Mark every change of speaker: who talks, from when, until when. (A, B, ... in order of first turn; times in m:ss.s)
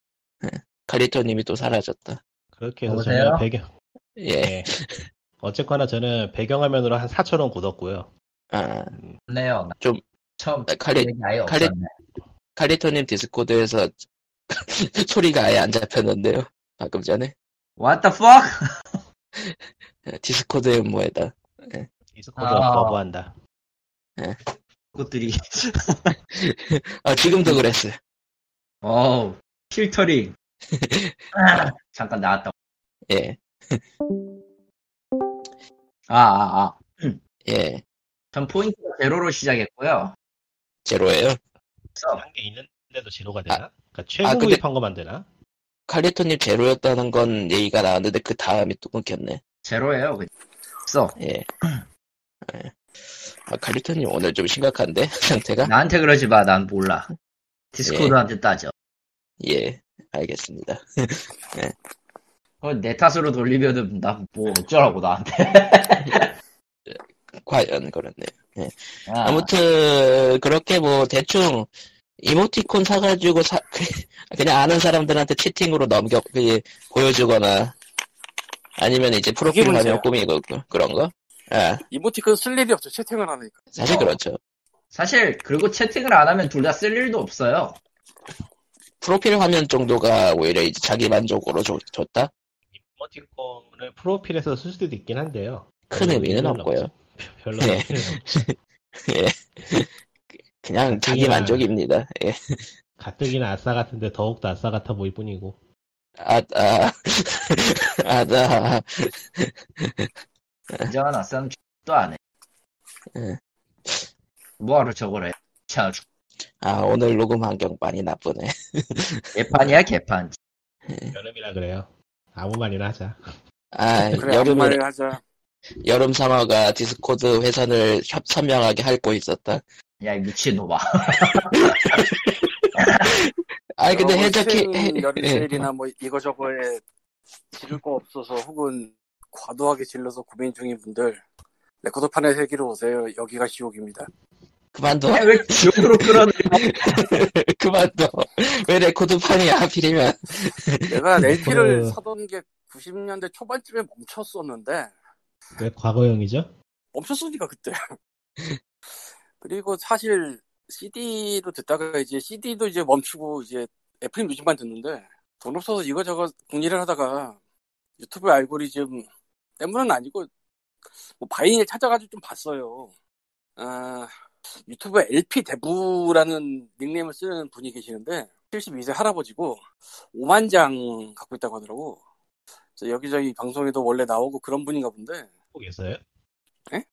0:00.4-0:02.2 A
0:02.6-0:03.7 B
0:02.9-0:03.4 C
0:04.2-0:05.1 A
0:04.3-0:04.7 B
0:05.4-0:08.1 B
0:08.5-0:09.0 A
0:09.3-0:09.8 C
0:09.8-0:10.0 A
0:10.4-0:11.9 C
0:10.7-0:11.7 A
0:12.6-0:17.3 A
0:17.8-0:18.6 C
0:19.4-0:21.9 A
0:22.1-0:23.3 B
0:22.4-0:23.0 C
0:25.0-0:26.2 C
0:26.3-0:28.0 A
0:28.8-0:30.3 C
0:30.7-0:31.2 A
0:31.3-0:32.5 C
0:33.1-0:33.8 A
0:36.1-0:37.2 C
0:37.5-0:37.8 A
0:38.3-0:40.2 C
0:40.8-0:41.4 A
0:42.0-0:42.2 C
0:42.1-0:45.3 B
0:44.2-0:44.6 A
0:45.9-0:49.4 A
0:49.6-0:50.3 C
0:50.9-0:51.2 C
0:51.2-0:51.5 A
0:52.4-0:55.7 A
0:55.6-0:57.1 C
0:57.7-0:58.7 C
0:57.8-0:58.2 A
0:59.4-1:01.7 A
1:02.6-1:06.3 C
1:06.9-1:11.7 A
1:09.1-1:09.5 C
1:12.2-1:17.8 A
1:18.8-1:21.8 A
1:19.5-1:20.0 D
1:21.9-1:23.6 D
1:23.7-1:24.4 A
1:23.8-1:24.2 C
1:24.9-1:27.8 C
1:29.0-1:32.3 A
1:32.7-1:38.3 B
1:35.9-1:36.9 A
1:37.6-1:38.5 A
1:39.0-1:42.8 A
1:41.0-1:41.7 B
1:43.0-1:45.6 B
1:46.2-1:50.1 A
1:50.9-1:52.2 C
1:53.1-1:54.1 A
1:54.6-1:56.0 C
1:56.6-1:59.8 A
1:59.4-2:00.4 C
2:00.9-2:01.2 A
2:01.1-2:03.4 B
2:03.7-2:04.8 A
2:04.2-2:05.2 D
2:05.8-2:09.6 A
2:10.0-2:12.0 C
2:11.5-2:13.2 A
2:12.8-2:13.2 C
2:13.8-2:15.7 A
2:13.9-2:16.8 D
2:17.5-2:21.2 D
2:21.8-2:24.1 D
2:24.7-2:30.9 A
2:25.1-2:27.2 C
2:30.9-2:34.9 D
2:31.2-2:32.0 B
2:35.6-2:36.5 B
2:36.9-2:38.0 D
2:39.4-2:47.4 D
2:48.0-2:49.1 D
2:49.6-2:50.3 D
2:51.1-2:52.9 D
2:53.6-3:02.0 D
3:02.8-3:05.3 D
3:05.6-3:06.0 B